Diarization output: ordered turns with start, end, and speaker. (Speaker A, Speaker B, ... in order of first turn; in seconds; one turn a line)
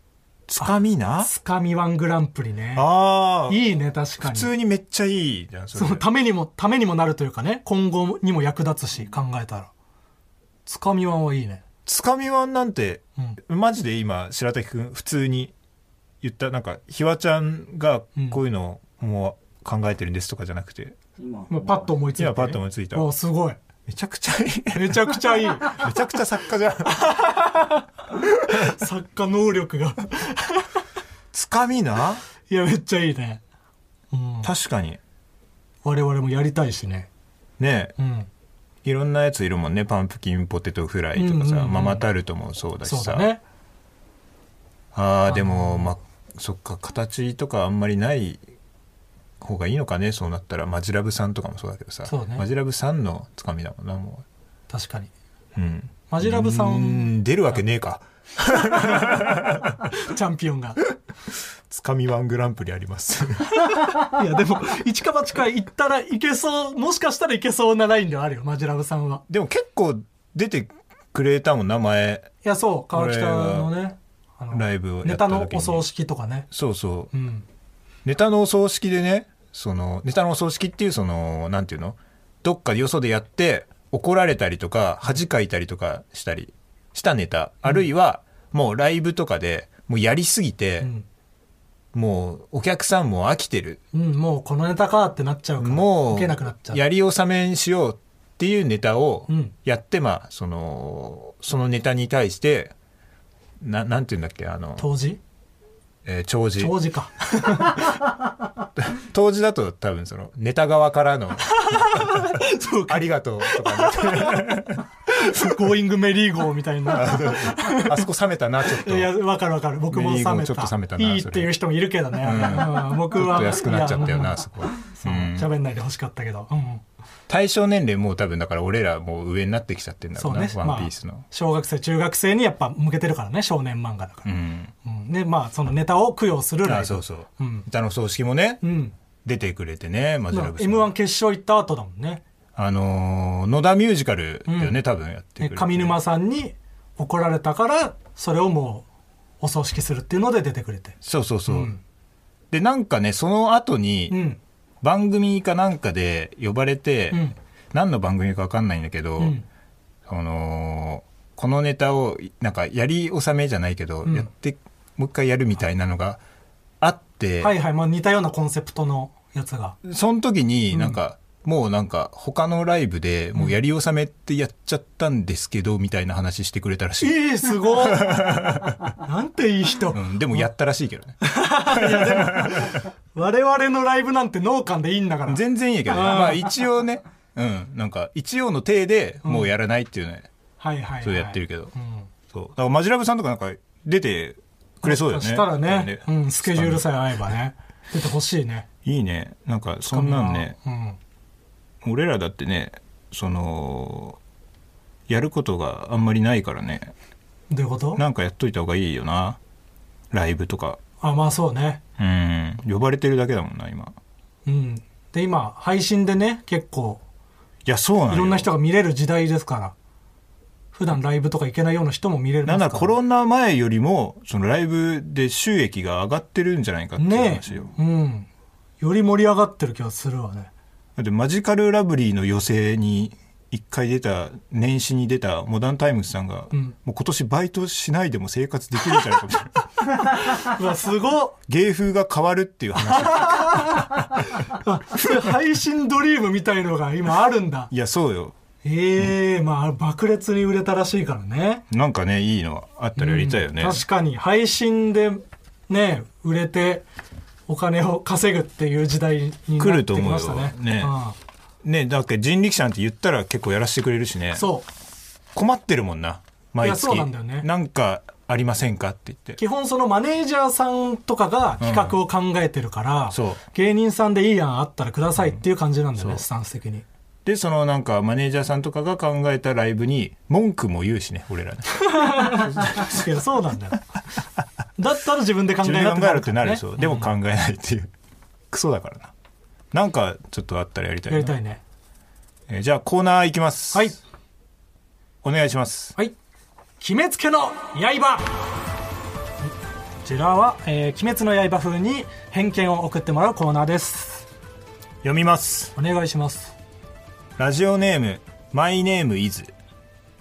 Speaker A: 0.5-1.3
Speaker B: 0.6-4.5
Speaker A: 2.8-3.6
Speaker A: 4.2-6.1
Speaker B: 5.7-9.7
Speaker B: 10.7-11.6
Speaker A: 11.9-15.5
Speaker A: 16.2-21.0
Speaker B: 21.5-23.6
Speaker A: 22.2-23.1
Speaker A: 23.9-27.1
Speaker B: 24.7-25.9
Speaker B: 26.9-30.7
Speaker A: 31.3-32.2
Speaker B: 32.5-33.4
Speaker B: 34.1-34.5
Speaker A: 34.4-35.0
Speaker B: 35.8-37.1
Speaker A: 37.6-37.9
Speaker B: 38.0-38.3
Speaker A: 38.8-43.3
Speaker B: 41.1-42.1
Speaker B: 42.8-43.4
Speaker A: 44.9-48.4
Speaker B: 45.3-45.9
Speaker A: 49.4-54.2
Speaker B: 52.1-52.5
Speaker B: 54.7-55.1
Speaker A: 55.6-59.8
Speaker B: 56.1-57.1
Speaker B: 58.7-60.8
Speaker A: 61.7-63.6
Speaker B: 63.9-69.2
Speaker A: 69.3-72.3
Speaker B: 72.4-76.5
Speaker A: 72.9-73.8
Speaker A: 74.5-75.9
Speaker A: 76.5-77.1
Speaker B: 77.1-77.5
Speaker A: 78.0-90.9
Speaker B: 87.6-87.9
Speaker B: 90.8-91.1
Speaker A: 91.9-93.8
Speaker B: 93.9-96.8
Speaker A: 95.6-102.8
Speaker B: 99.3-99.6
Speaker A: 103.6-104.9
Speaker B: 104.8-105.2
Speaker A: 106.0-106.8
Speaker B: 106.6-108.0
Speaker A: 108.8-112.3
Speaker B: 111.5-118.0
Speaker A: 112.9-114.8
Speaker A: 116.9-119.2
Speaker B: 118.7-126.8
Speaker A: 119.9-121.5
Speaker A: 122.2-125.5
Speaker A: 127.3-131.2
Speaker B: 130.2-134.3
Speaker A: 134.2-134.7
Speaker B: 134.8-137.7
Speaker A: 136.6-138.6
Speaker B: 138.6-138.9
Speaker A: 139.2-140.9
Speaker B: 140.3-142.2
Speaker A: 142.6-146.0
Speaker B: 144.5-144.8
Speaker B: 145.4-148.9
Speaker B: 149.4-151.8
Speaker A: 151.0-151.7
Speaker A: 152.5-154.2
Speaker B: 154.1-154.4
Speaker A: 154.8-159.4
Speaker B: 157.1-157.4
Speaker B: 159.2-159.4
Speaker A: 160.1-166.2
Speaker B: 164.1-164.3
Speaker A: 166.8-167.5
Speaker B: 167.4-169.8
Speaker A: 169.8-178.9
Speaker B: 170.7-171.0
Speaker B: 177.0-178.3
Speaker B: 179.0-180.5
Speaker A: 179.9-182.7
Speaker B: 181.2-186.6
Speaker A: 185.3-190.3
Speaker B: 189.2-189.5
Speaker B: 190.6-192.1
Speaker A: 191.0-191.7
Speaker A: 192.3-196.9
Speaker B: 194.8-198.7
Speaker A: 198.8-200.6
Speaker B: 199.9-201.0
Speaker A: 201.8-204.2
Speaker A: 205.1-206.9
Speaker B: 207.5-208.0
Speaker A: 208.0-209.4
Speaker A: 210.1-210.8
Speaker B: 211.0-211.8
Speaker A: 212.0-213.9
Speaker B: 214.4-217.0
Speaker A: 217.7-218.5
Speaker B: 218.1-219.8
Speaker B: 220.7-222.9
Speaker A: 222.4-227.8
Speaker B: 227.0-228.3
Speaker B: 228.8-230.5
Speaker A: 231.0-239.7
Speaker B: 240.2-241.4
Speaker A: 241.5-244.3
Speaker B: 242.9-247.7
Speaker A: 247.7-248.3
Speaker B: 248.6-251.6
Speaker A: 251.7-253.8
Speaker B: 253.0-256.9
Speaker B: 257.5-261.2
Speaker A: 259.6-260.9
Speaker A: 261.6-264.5
Speaker B: 264.3-264.7
Speaker A: 265.4-269.4
Speaker B: 266.6-267.5
Speaker B: 269.4-276.9
Speaker A: 271.6-272.0
Speaker A: 273.1-273.4
Speaker A: 275.2-275.4
Speaker A: 276.0-276.2
Speaker A: 277.2-283.1
Speaker B: 281.8-283.9
Speaker B: 284.8-287.1
Speaker A: 285.6-287.9
Speaker A: 288.5-289.1
Speaker A: 289.7-291.4
Speaker B: 291.1-291.6
Speaker A: 292.5-294.0
Speaker B: 293.7-294.0
Speaker A: 295.2-296.0
Speaker B: 296.8-298.4
Speaker B: 300.0-304.3
Speaker A: 305.0-305.7
Speaker B: 305.8-306.6
Speaker A: 307.4-309.5